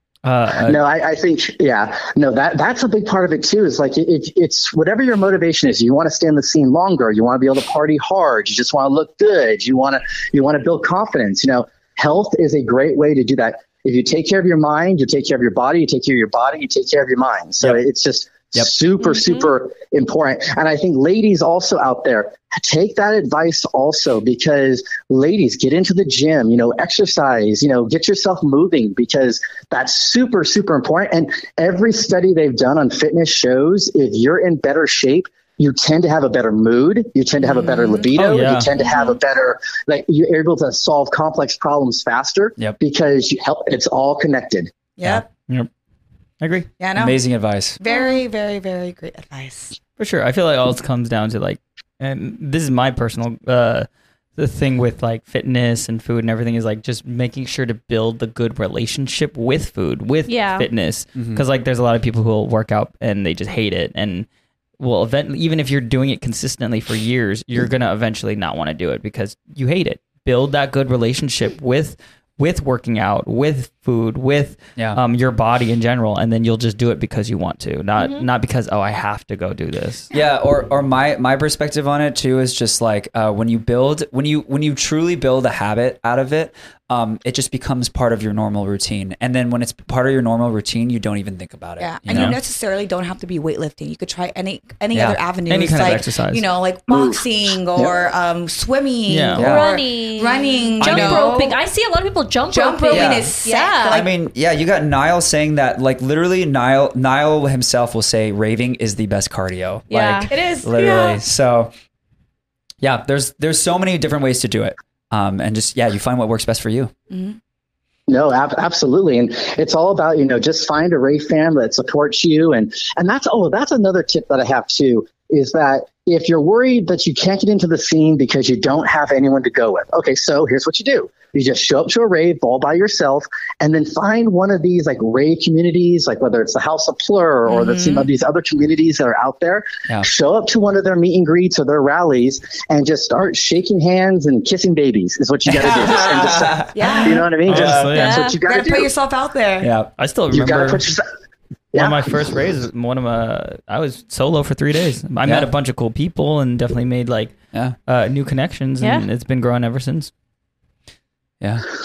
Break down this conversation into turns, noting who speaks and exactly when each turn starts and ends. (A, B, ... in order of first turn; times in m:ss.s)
0:00.2-0:00.6 A
0:00.5-0:00.8 B
0:00.6-0:44.7 C
0:19.0-0:19.4 D
0:37.4-0:38.1 E
0:38.2-0:38.7 A
0:38.8-0:39.2 D
0:45.0-0:45.3 E
0:46.4-0:46.7 A
0:46.8-0:47.2 E
0:47.0-0:47.8 B
0:47.8-0:49.8 E
0:47.9-0:48.2 D
0:50.0-1:04.3 A
1:00.3-1:00.7 D
1:01.2-1:01.4 B
1:04.8-1:20.1 A
1:18.0-1:18.3 D
1:20.1-1:32.4 B
1:31.8-1:41.6 E
1:32.1-1:32.4 A
1:34.9-1:35.2 B
1:35.5-1:36.4 A
1:36.9-1:38.0 C
1:39.1-1:39.5 A
1:39.4-1:39.7 B
1:39.4-1:44.0 D
1:40.8-1:41.3 B
1:42.5-1:44.1 E
1:42.9-1:43.3 B
1:43.9-1:51.7 B
1:49.9-1:50.3 D
1:50.3-1:51.2 E
1:52.8-1:56.9 B
1:57.1-1:57.4 E
1:58.1-2:28.9 C
2:17.5-2:18.1 E
2:25.5-2:26.7 B
2:26.7-2:27.4 E
2:27.4-2:28.2 A
2:27.5-2:28.0 B
2:28.0-2:28.4 D
2:28.4-2:29.7 E
2:29.6-2:29.9 B
2:30.0-2:30.8 A
2:30.3-2:31.1 C
2:31.7-2:32.2 C
2:31.7-2:37.4 A
2:35.2-2:35.5 B
2:37.9-2:40.1 A
2:38.8-2:39.1 D
2:41.4-2:41.7 B